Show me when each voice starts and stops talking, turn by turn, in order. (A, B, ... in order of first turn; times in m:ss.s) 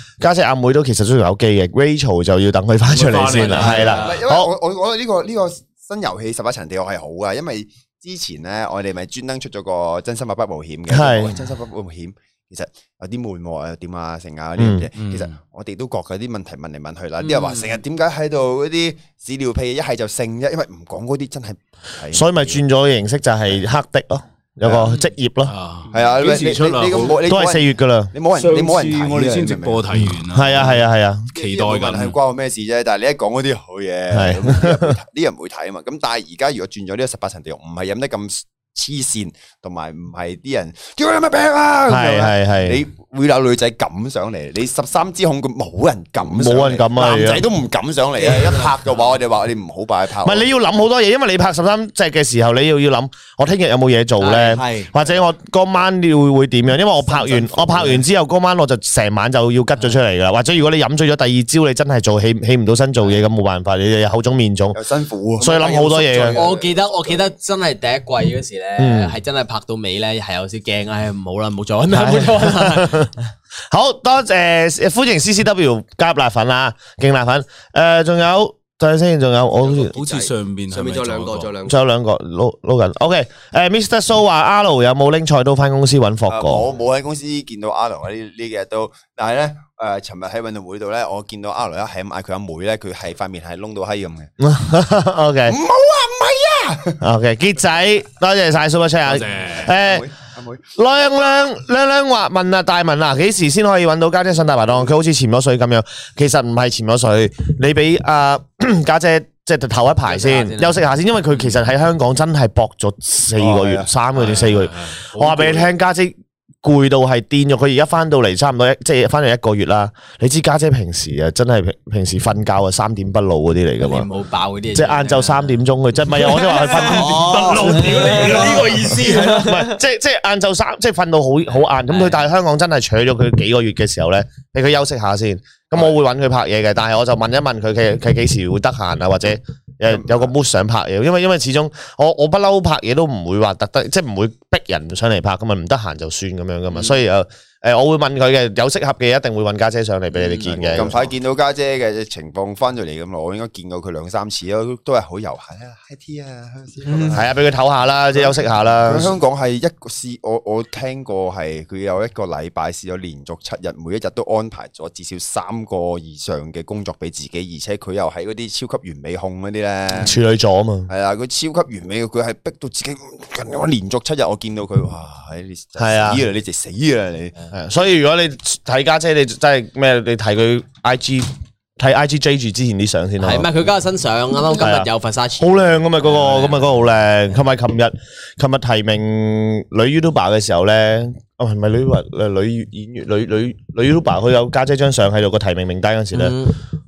0:00.2-0:04.5 A
0:02.9-0:04.2 B
0:03.4-0:04.0 C
0:03.6-0:22.6 D
0:10.9-0:11.4 A
0:14.6-0:14.9 A
0:15.0-0:15.3 B
0:17.2-0:17.6 C
0:22.1-0:25.5 A
0:24.6-0:24.9 D
0:25.5-0:27.2 B
0:25.9-0:30.0 D
0:27.3-0:28.1 A
0:28.4-0:30.8 B
0:30.3-0:31.3 A
0:31.3-0:32.2 B
0:31.3-0:50.5 D
0:34.1-0:34.9 A
0:41.9-0:42.8 A
0:46.2-0:47.4 A
0:48.2-0:48.7 E
0:50.2-1:04.8 A
0:54.2-0:54.6 C
0:54.6-0:54.9 E
0:57.4-0:58.0 D
1:04.7-1:06.7 D
1:05.4-1:06.4 A
1:05.8-1:06.7 E
1:06.3-1:13.1 C
1:08.8-1:09.1 A
1:11.9-1:13.1 A
1:13.7-1:19.9 A
1:19.9-1:21.5 B
1:19.9-1:21.8 E
1:21.7-1:26.6 A
1:26.3-1:34.3 D
1:34.4-1:35.6 A
1:35.5-1:37.0 D
1:37.0-1:40.1 A
1:39.1-1:39.7 B
1:39.7-1:40.7 D
1:40.8-2:04.1 A
1:50.1-1:50.8 C
1:53.4-1:53.9 D
1:54.2-1:55.7 B
2:03.8-2:05.6 C
2:04.7-2:07.4 A
2:06.2-2:06.8 C
2:06.2-2:09.4 B
2:06.8-2:09.4 E
2:07.8-2:09.7 C
2:09.1-2:31.0 A
2:11.8-2:12.2 C
2:19.9-2:20.3 D
2:30.2-2:30.9 C
2:30.7-2:37.3 D
2:36.9-2:37.2 C
2:37.1-2:39.1 A
2:38.8-2:50.2 D
2:50.0-2:50.9 A
2:50.9-2:57.4 D
2:55.8-2:56.2 A
2:57.5-3:03.5 A
3:03.2-3:06.8 C
3:04.6-3:04.9 A
3:05.4-3:16.4 A
3:16.1-3:16.6 C